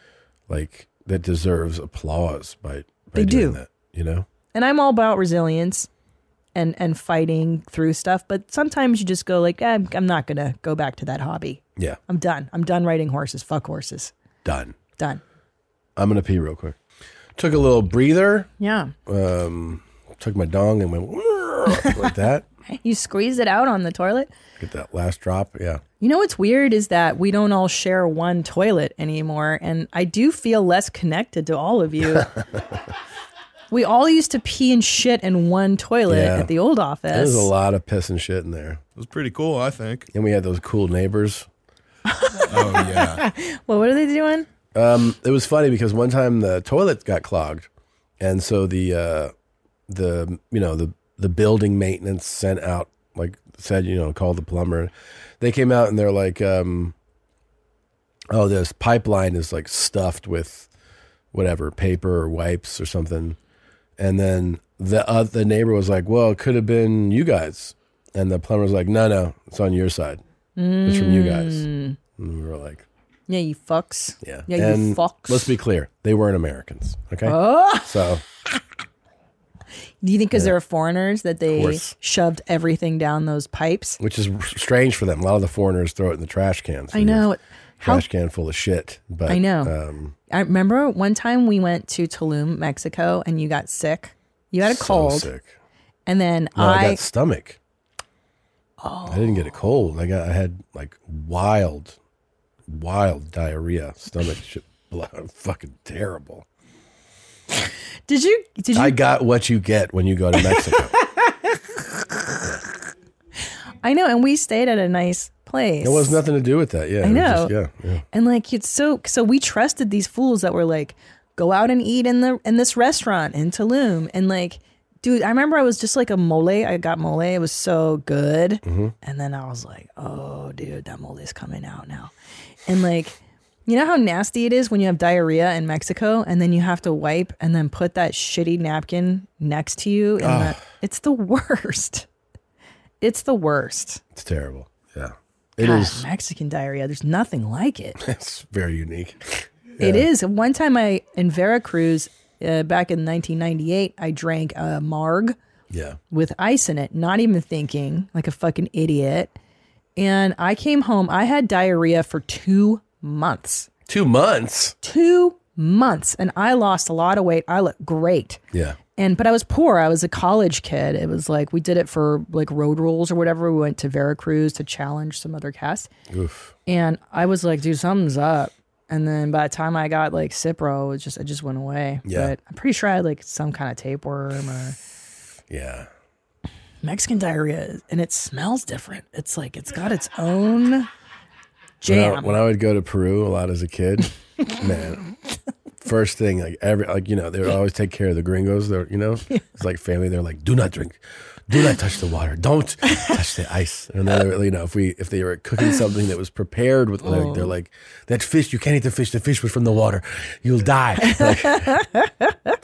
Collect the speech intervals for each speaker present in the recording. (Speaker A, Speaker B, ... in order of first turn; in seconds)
Speaker A: 0.5-4.3, 14.4-14.8, 16.0-16.8, 17.4-18.5, 19.1-22.5, 24.6-25.8, 32.1-32.8, 36.1-36.5, 37.1-38.8, 40.1-41.5, 44.7-47.7, 48.2-49.3, 49.9-57.0, 58.3-60.7, 61.3-63.4, 64.0-70.2, 70.8-72.9, 74.2-78.2, 81.5-81.9, 84.0-87.3, 87.8-90.2, 94.6-95.5, 96.6-97.6, 99.1-102.0, 102.7-106.5, 108.7-111.0, 115.8-118.0, 128.7-128.9, 140.2-140.6, 144.1-146.1, 148.0-150.1, 155.7-156.0, 163.9-164.8, 168.5-168.8, 176.1-176.6, 182.1-182.3, 185.5-185.9, 191.8-195.0, 195.8-211.8
Speaker B: 3.1-3.6, 4.5-5.9, 6.5-14.1, 18.6-18.9, 22.7-24.3, 26.0-32.3, 33.7-37.5, 42.1-44.5, 70.6-72.0, 73.3-75.5, 77.2-77.9, 80.0-84.0, 86.9-88.1, 89.3-89.7, 90.3-95.3, 96.1-97.0, 98.8-99.5, 108.1-109.0, 113.8-116.2, 117.0-117.5, 118.1-132.1, 132.7-142.1, 143.0-144.0, 145.6-148.0, 149.8-155.4, 156.1-159.3, 160.0-163.7, 164.8-168.4, 168.9-175.9, 176.7-184.8, 186.8-190.9, 191.8-192.4, 207.0-207.5, 211.0-212.6
Speaker C: 39.0-40.1, 42.5-43.2